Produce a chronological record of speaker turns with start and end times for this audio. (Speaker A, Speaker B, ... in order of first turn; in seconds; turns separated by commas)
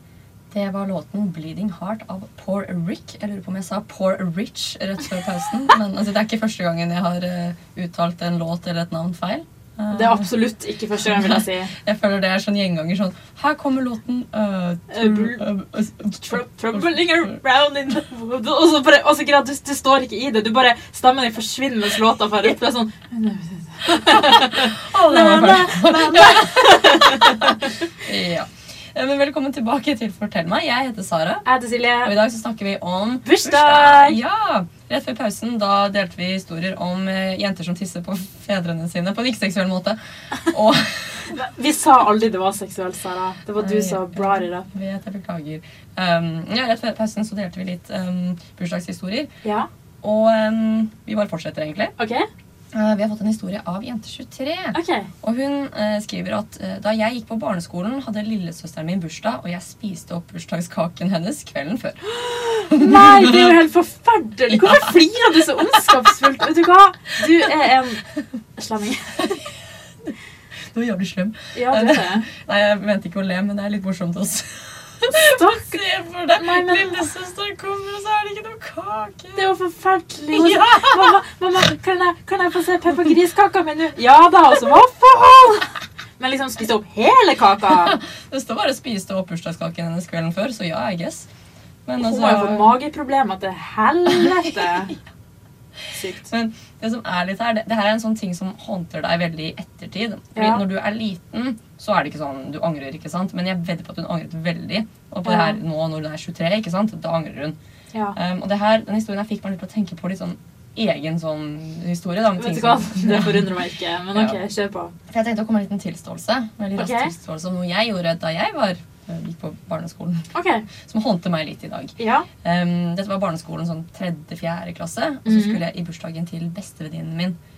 Speaker A: 0.5-10.3, Speaker B: 9.9-11.7, Speaker A: 11.0-17.3, Speaker B: 14.9-15.5, Speaker B: 16.1-27.7, Speaker A: 23.9-31.5, Speaker B: 31.4-32.1, Speaker A: 32.0-41.4, Speaker B: 33.2-34.2, Speaker B: 41.3-44.7, Speaker A: 43.6-49.3, Speaker B: 49.4-49.7, Speaker A: 50.0-51.9, Speaker B: 52.0-52.3, Speaker A: 52.7-62.1, Speaker B: 54.7-55.1, Speaker B: 62.1-68.0, Speaker A: 62.7-63.6, Speaker A: 64.5-65.0, Speaker A: 65.6-66.1, Speaker B: 68.6-69.4, Speaker A: 69.2-69.5, Speaker A: 70.7-79.5, Speaker B: 71.5-72.3, Speaker B: 75.1-75.8, Speaker B: 76.3-77.0, Speaker B: 79.3-88.0, Speaker A: 80.3-81.2, Speaker A: 87.7-91.3, Speaker A: 91.8-92.8, Speaker B: 92.0-95.0, Speaker A: 94.1-94.9, Speaker B: 95.9-96.3, Speaker A: 96.2-107.6, Speaker B: 100.3-100.6, Speaker B: 105.2-105.6, Speaker A: 108.1-113.6, Speaker B: 112.3-114.9, Speaker A: 114.1-114.4, Speaker A: 115.1-127.4, Speaker B: 116.8-117.1, Speaker B: 120.3-120.7, Speaker B: 122.0-122.3, Speaker B: 125.2-125.6